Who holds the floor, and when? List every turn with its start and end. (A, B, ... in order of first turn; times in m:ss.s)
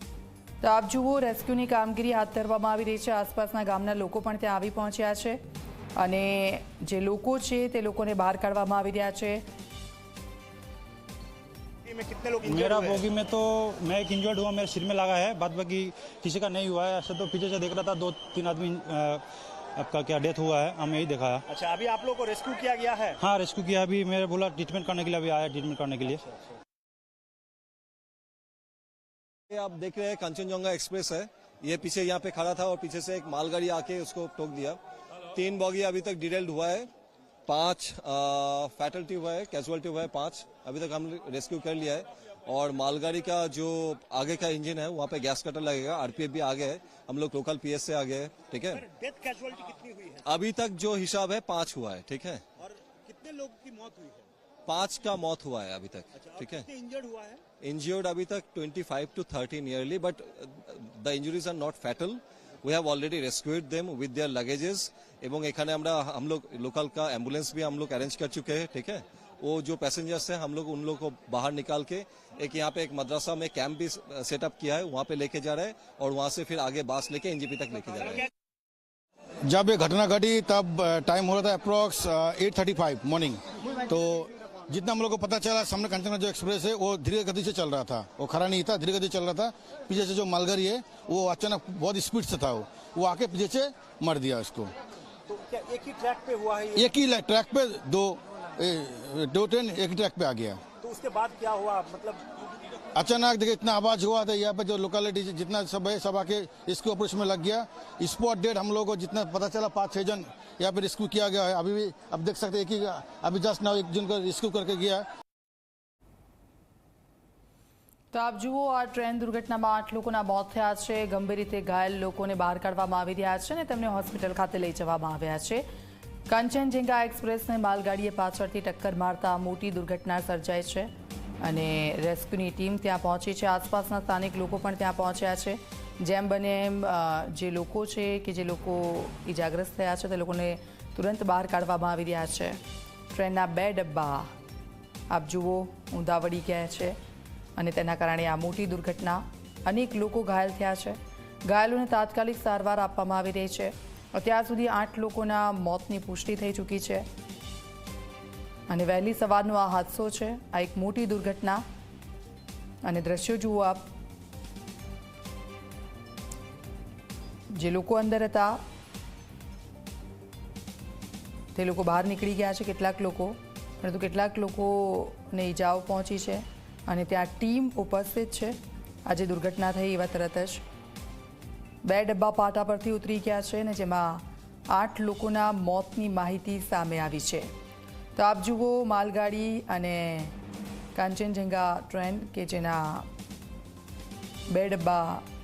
0:00.6-0:05.4 A
0:06.0-0:09.4 A
0:11.8-0:13.0 B
0:12.4-0:19.2 C
0:19.8-0:21.4 C
0:21.5-0:23.2 B
0:23.2-0:26.2 C
0:29.5-0:34.8 D
0:35.3-0:36.9 D
0:37.5-0:48.8 D
0:48.7-0:50.2 B
0:50.2-0:52.4 D
0:52.6-0:54.3 B
0:54.6-0:56.7 D
0:56.2-0:57.4 B
0:57.6-1:18.3 D
1:19.4-1:34.7 E
1:35.3-1:36.8 B
1:36.7-1:40.6 E
1:40.8-1:42.2 B
1:42.9-1:55.0 E
1:58.1-2:05.6 A
2:06.3-2:10.9 A
2:11.4-2:22.6 A
2:23.1-2:24.3 A
2:25.1-2:27.0 A
2:27.6-2:37.0 A
2:38.7-2:41.6 A
2:42.8-2:43.9 A
2:47.5-2:48.6 A
2:51.5-3:00.6 A
3:01.8-3:07.5 A
3:08.2-3:10.3 A
3:10.9-3:13.1 A
3:14.5-3:15.2 A